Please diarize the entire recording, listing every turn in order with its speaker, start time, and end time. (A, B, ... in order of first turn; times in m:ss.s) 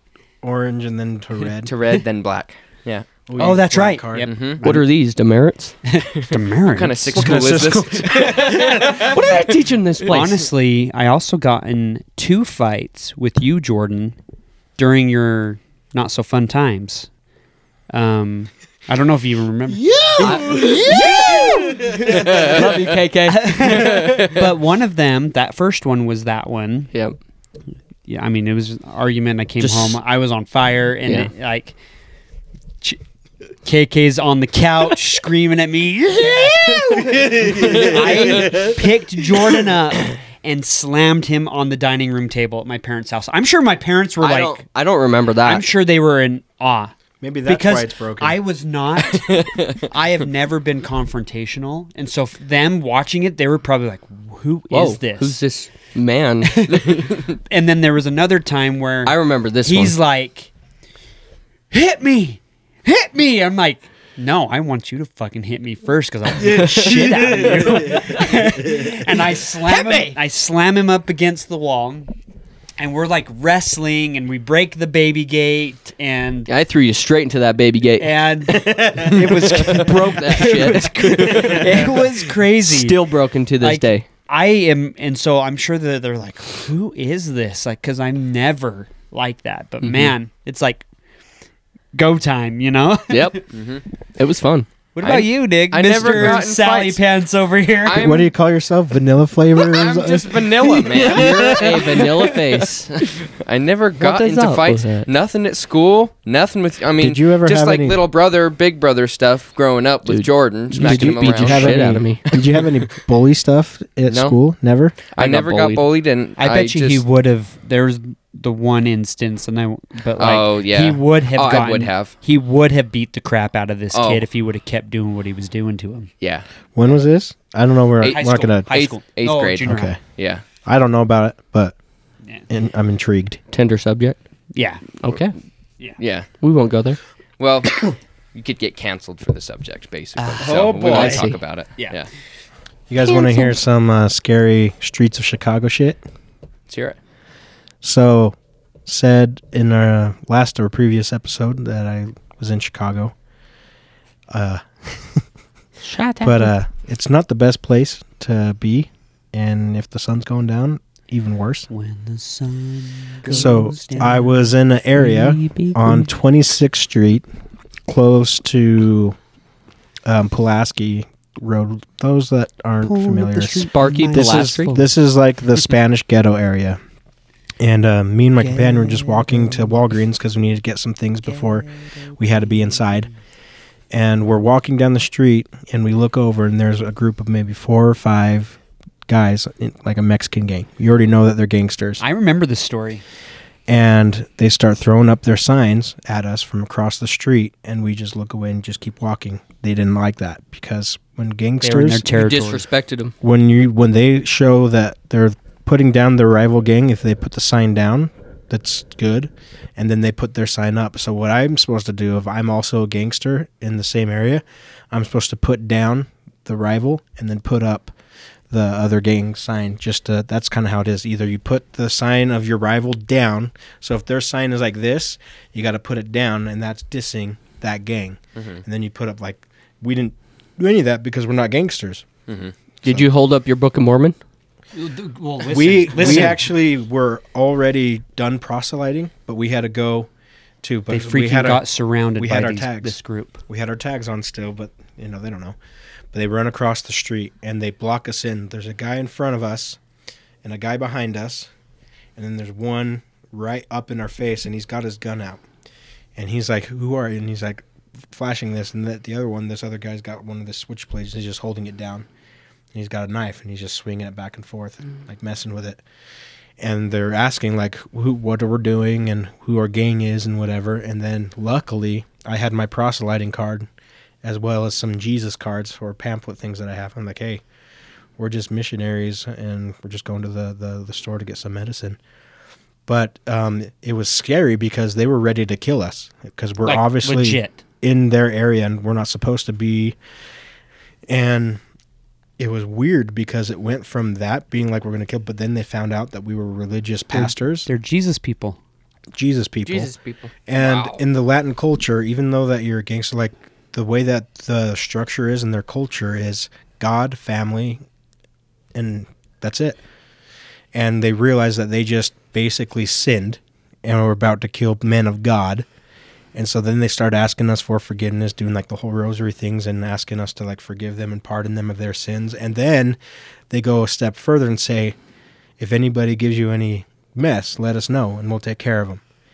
0:00.4-0:01.7 A
0:01.6-0:03.1 B
0:03.3-0:04.4 A
0:03.4-0:04.9 C
0:04.2-0:04.6 B
0:04.6-0:05.8 D
0:05.9-0:07.6 C
0:06.7-0:09.3 B
0:07.1-0:09.1 A
0:08.3-0:10.5 D
0:10.0-0:14.2 C
0:14.8-0:17.1 C
0:17.9-0:22.3 C
0:19.8-0:22.3 A
0:20.2-0:24.5 D
0:23.3-0:26.9 C
0:28.1-0:31.8 C
0:29.6-0:30.0 D
0:31.0-0:31.3 D
0:33.6-0:44.6 C
0:36.8-0:38.8 A
0:44.2-0:45.7 D
0:45.4-0:46.9 C
0:47.2-0:48.4 A
0:47.4-0:55.4 C
0:49.3-0:49.8 B
0:54.7-0:57.1 D
0:56.4-1:00.5 C
0:59.0-1:00.0 D
1:01.7-1:12.1 C
1:06.4-1:10.1 A
1:06.5-1:07.2 D
1:12.8-1:16.5 C
1:16.5-1:22.0 D
1:18.0-1:23.1 C
1:18.6-1:19.7 A
1:20.5-1:22.1 A
1:22.6-1:24.1 D
1:23.6-1:30.8 C
1:29.8-1:30.1 D
1:31.9-1:33.4 C
1:33.1-1:33.4 D
1:33.5-1:33.8 B
1:34.2-1:34.7 D
1:35.0-1:38.2 C
1:35.0-1:37.0 B
1:37.8-1:38.3 B
1:38.0-1:41.9 A
1:39.6-1:42.6 B
1:40.9-1:43.3 D
1:43.4-1:52.8 B
1:44.0-1:45.1 D
1:47.0-1:48.0 A
1:50.1-1:52.2 D
1:50.8-1:55.0 A
1:54.1-1:54.4 B
1:55.1-1:57.0 B
1:55.2-1:55.8 D
1:56.4-2:06.1 C
2:00.2-2:02.1 B
2:03.9-2:04.2 B
2:06.8-2:08.7 A
2:08.0-2:10.4 B
2:08.1-2:10.0 C
2:09.6-2:10.0 A
2:10.6-2:11.8 A
2:12.5-2:13.4 A
2:13.5-2:14.2 D
2:14.5-2:14.8 C
2:15.0-2:15.4 D
2:16.0-2:16.3 B
2:16.4-2:17.0 D
2:17.4-2:22.1 B
2:20.2-2:22.0 C
2:20.4-2:21.3 A
2:20.9-2:21.4 D
2:22.9-2:26.0 A
2:26.7-2:27.0 B
2:27.8-2:33.1 A
2:34.3-2:35.2 A
2:35.9-2:36.5 D
2:36.2-2:41.7 A
2:41.7-2:44.5 C
2:43.3-2:47.3 A
2:45.1-2:45.7 D
2:47.9-2:49.2 A
2:50.0-2:56.8 A
2:52.8-2:54.9 C
2:53.7-2:54.8 D
2:57.6-3:03.1 A
2:58.4-2:59.8 C
3:01.3-3:02.9 C
3:03.9-3:12.0 A
3:12.0-3:13.0 C
3:13.7-3:22.1 A
3:21.6-3:22.7 C
3:22.1-3:23.1 D
3:23.2-3:37.9 A
3:38.5-3:52.1 A
3:48.4-3:48.6 B
3:52.3-3:52.5 B
3:52.8-3:53.1 A
3:52.8-3:54.2 D
3:54.8-3:56.5 C
3:55.4-4:00.1 A
4:00.6-4:01.7 A
4:00.9-4:03.4 C
4:02.2-4:05.6 A
4:06.1-4:09.8 A
4:10.4-4:11.5 A
4:12.2-4:15.4 A
4:16.2-4:22.1 A
4:22.7-4:25.8 A
4:26.6-4:33.7 A
4:34.2-4:37.4 A
4:38.2-4:42.0 A
4:42.9-4:50.0 A
4:46.6-4:47.6 C
4:51.1-4:51.6 A
4:52.4-4:57.7 A
4:57.1-4:58.6 C
4:59.1-4:59.9 A
4:59.6-5:00.3 D
5:00.5-5:07.8 A
5:00.5-5:01.0 B
5:08.7-5:09.8 A
5:10.7-5:15.7 A
5:16.3-5:23.0 A
5:23.5-5:25.0 A
5:25.6-5:29.0 A